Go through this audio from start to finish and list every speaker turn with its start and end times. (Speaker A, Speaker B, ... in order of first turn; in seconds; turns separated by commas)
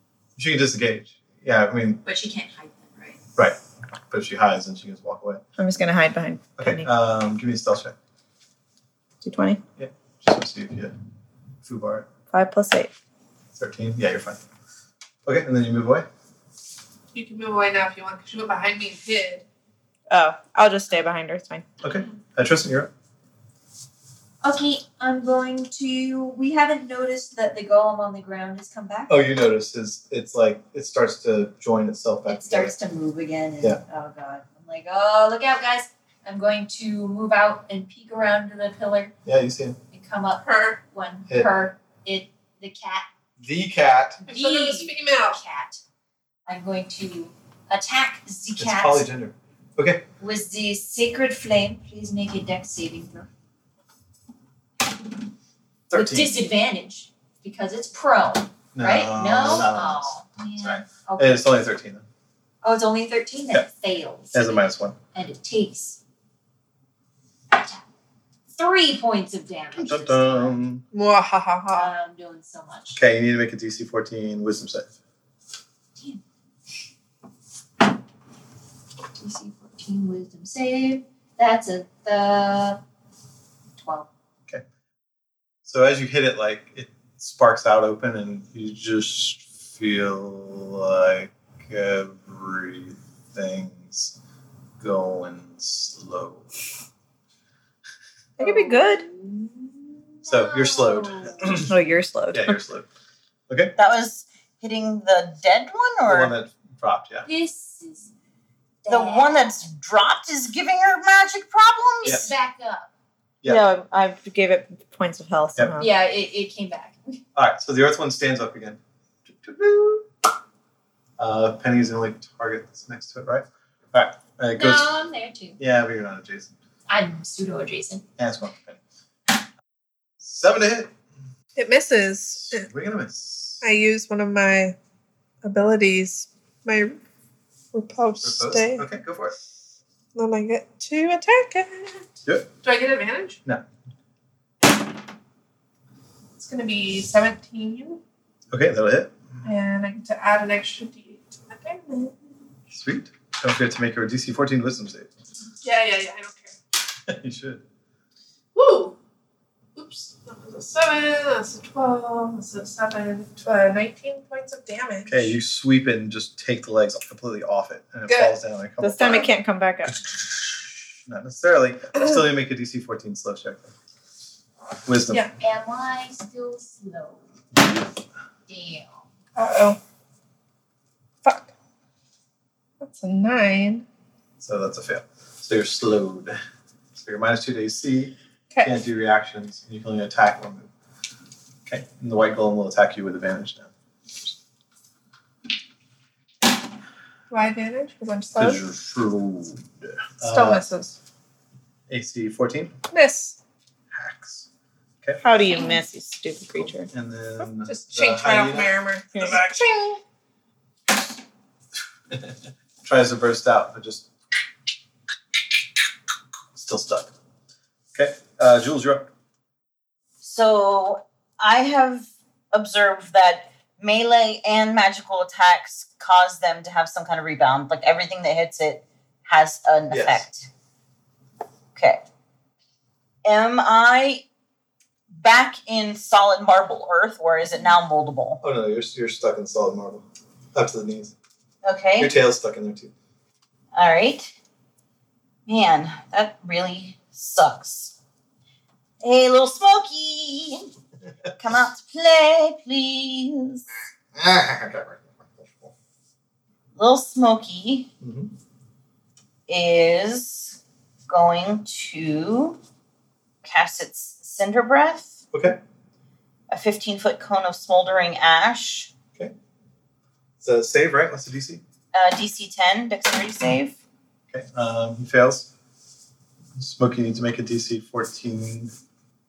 Speaker A: 0.3-2.0, Speaker B: 2.0-3.2, Speaker A: 4.1-5.4, Speaker C: 5.6-6.9, Speaker A: 6.6-7.9, Speaker C: 9.2-9.6, Speaker A: 9.8-10.9, Speaker A: 11.6-12.1, Speaker C: 12.3-12.9, Speaker A: 13.5-14.4, Speaker A: 15.2-16.1, Speaker D: 17.1-19.4, Speaker C: 20.1-21.6, Speaker A: 21.8-22.9, Speaker B: 24.4-29.2, Speaker A: 29.1-32.7, Speaker B: 32.3-39.1, Speaker A: 39.2-39.8, Speaker B: 39.9-43.0, Speaker D: 40.4-40.8, Speaker A: 43.4-44.2, Speaker B: 44.2-45.8, Speaker D: 44.3-45.4, Speaker B: 46.5-49.1, Speaker A: 48.6-50.0, Speaker B: 50.2-53.3, Speaker A: 55.9-56.3, Speaker B: 55.9-61.5, Speaker A: 58.7-62.0, Speaker B: 62.6-66.0, Speaker A: 64.3-65.0, Speaker B: 67.5-67.8, Speaker B: 68.5-70.5, Speaker A: 69.7-70.8, Speaker D: 70.9-71.9, Speaker B: 71.7-73.0, Speaker A: 72.9-74.9, Speaker B: 79.2-82.8, Speaker B: 83.8-84.1, Speaker A: 85.6-94.2, Speaker A: 94.8-96.5, Speaker C: 98.4-99.0, Speaker B: 98.4-101.6, Speaker A: 100.2-101.7, Speaker C: 101.7-102.6, Speaker A: 102.3-102.9, Speaker A: 103.5-103.7, Speaker E: 103.8-106.3, Speaker A: 106.0-107.3, Speaker B: 107.2-108.1, Speaker B: 108.8-109.6, Speaker E: 108.9-112.3, Speaker B: 112.0-112.9, Speaker A: 113.4-113.7, Speaker C: 113.4-115.9, Speaker B: 115.8-117.2, Speaker A: 117.3-120.1, Speaker A: 121.2-125.0, Speaker B: 124.5-125.6, Speaker A: 125.6-126.5, Speaker B: 126.9-128.0, Speaker A: 128.2-128.8, Speaker A: 130.2-130.9, Speaker D: 131.6-132.7, Speaker A: 132.3-133.6, Speaker D: 133.6-134.8, Speaker D: 135.4-137.0, Speaker D: 137.7-138.8, Speaker A: 138.2-139.3, Speaker D: 140.1-142.1, Speaker D: 142.6-143.4, Speaker D: 146.4-148.0, Speaker A: 148.5-149.2, Speaker D: 149.4-152.2, Speaker A: 152.7-155.1, Speaker D: 155.6-156.5, Speaker A: 157.0-157.6, Speaker D: 158.5-159.0, Speaker D: 159.8-165.3, Speaker A: 165.1-169.3, Speaker D: 168.1-168.4, Speaker C: 168.8-170.0, Speaker A: 169.9-173.7, Speaker A: 174.8-175.3, Speaker B: 175.3-177.2, Speaker B: 178.5-179.0, Speaker D: 179.3-179.8, Speaker D: 181.2-181.5, Speaker D: 182.8-183.8, Speaker A: 184.4-186.3, Speaker A: 186.9-190.7, Speaker D: 188.5-188.8, Speaker A: 191.7-194.3, Speaker D: 197.3-198.6, Speaker A: 198.4-200.6, Speaker D: 200.2-201.0, Speaker A: 201.9-202.8, Speaker D: 202.9-203.4, Speaker A: 203.9-204.5, Speaker C: 205.2-206.9, Speaker A: 206.6-209.7, Speaker D: 207.6-210.0, Speaker C: 209.1-209.4, Speaker A: 212.1-214.1, Speaker A: 216.5-217.1, Speaker A: 217.9-219.1, Speaker E: 220.2-230.5, Speaker A: 229.9-230.2, Speaker E: 231.7-232.0, Speaker E: 233.2-234.2, Speaker E: 235.1-238.4, Speaker A: 238.4-241.1, Speaker E: 241.6-242.1, Speaker A: 242.0-242.9, Speaker E: 243.7-244.3, Speaker E: 245.5-247.9, Speaker E: 249.0-250.7, Speaker E: 251.4-253.6, Speaker A: 254.1-255.7, Speaker E: 256.7-257.9, Speaker A: 258.0-258.3, Speaker E: 259.5-262.6, Speaker E: 263.4-265.2, Speaker A: 265.3-265.6, Speaker E: 266.5-268.9, Speaker A: 270.4-271.6, Speaker E: 271.9-273.8, Speaker A: 274.3-275.5, Speaker A: 276.6-278.7